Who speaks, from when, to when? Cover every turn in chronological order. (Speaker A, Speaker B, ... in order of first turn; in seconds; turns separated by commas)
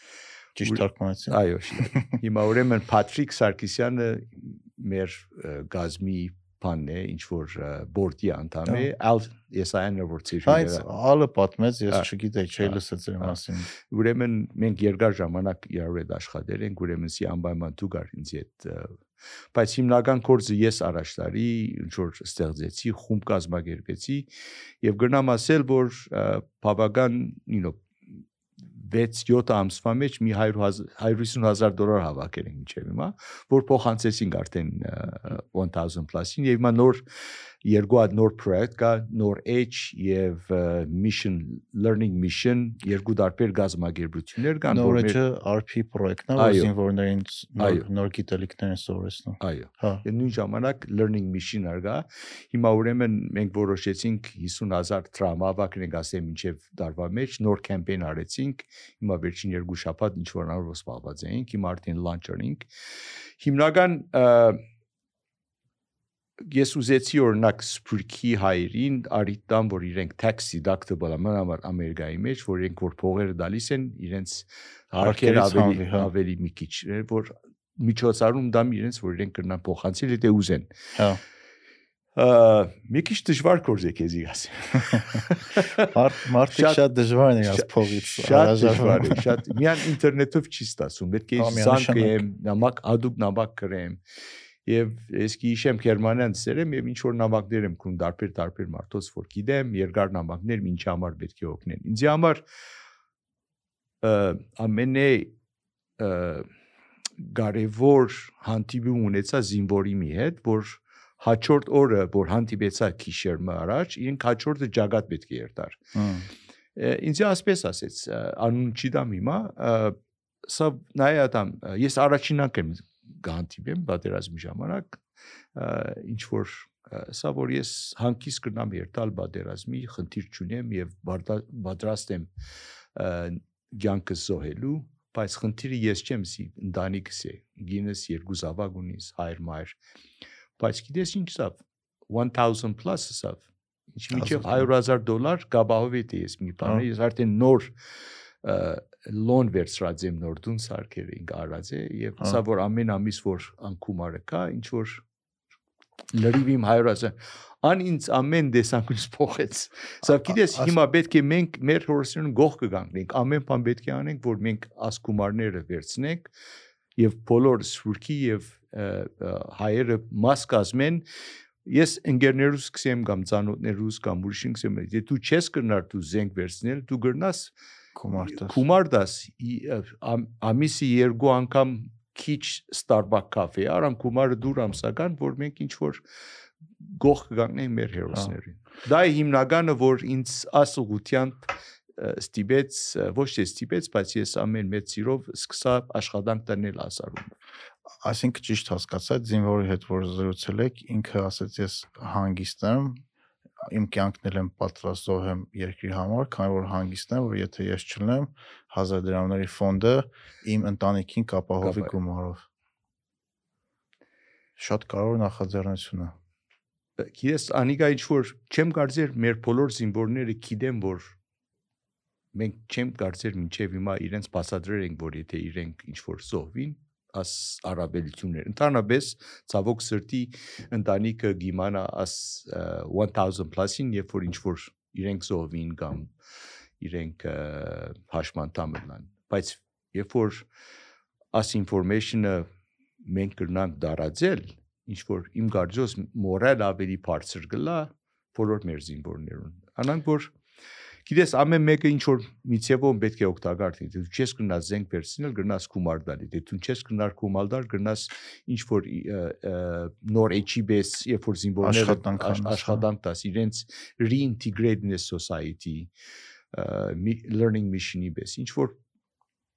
Speaker A: 0.6-2.2, Speaker B: 0.6-10.9, Speaker A: 10.4-13.7, Speaker B: 12.6-19.0, Speaker B: 19.5-24.3, Speaker B: 24.8-27.8, Speaker B: 28.6-37.0, Speaker B: 37.6-45.2, Speaker A: 44.7-50.0, Speaker B: 46.4-46.7, Speaker B: 47.6-47.9, Speaker B: 49.4-62.7, Speaker B: 63.4-64.6, Speaker B: 66.4-80.7, Speaker A: 75.0-76.1, Speaker A: 81.0-81.2, Speaker B: 82.1-85.9, Speaker A: 85.8-89.4, Speaker B: 86.5-86.8, Speaker B: 87.4-94.0, Speaker A: 91.4-92.2, Speaker B: 94.6-102.4, Speaker B: 104.0-105.3, Speaker B: 106.0-106.5, Speaker B: 107.2-115.8, Speaker A: 116.0-116.3, Speaker B: 116.8-125.0, Speaker B: 125.5-132.3, Speaker B: 132.9-139.8, Speaker B: 140.6-147.8, Speaker A: 144.1-144.7, Speaker B: 148.4-155.0, Speaker B: 156.1-166.3, Speaker A: 160.4-160.7, Speaker B: 166.9-171.1, Speaker B: 171.7-177.5, Speaker A: 177.9-178.6, Speaker B: 178.2-186.0, Speaker B: 186.8-197.3, Speaker A: 198.0-203.0, Speaker A: 203.6-212.4, Speaker B: 211.6-211.9, Speaker A: 214.6-216.1, Speaker B: 217.0-221.1, Speaker B: 222.3-236.1, Speaker B: 236.8-240.5, Speaker B: 241.3-242.5, Speaker B: 243.0-250.3, Speaker B: 251.1-265.9, Speaker A: 261.6-262.8, Speaker B: 266.5-268.8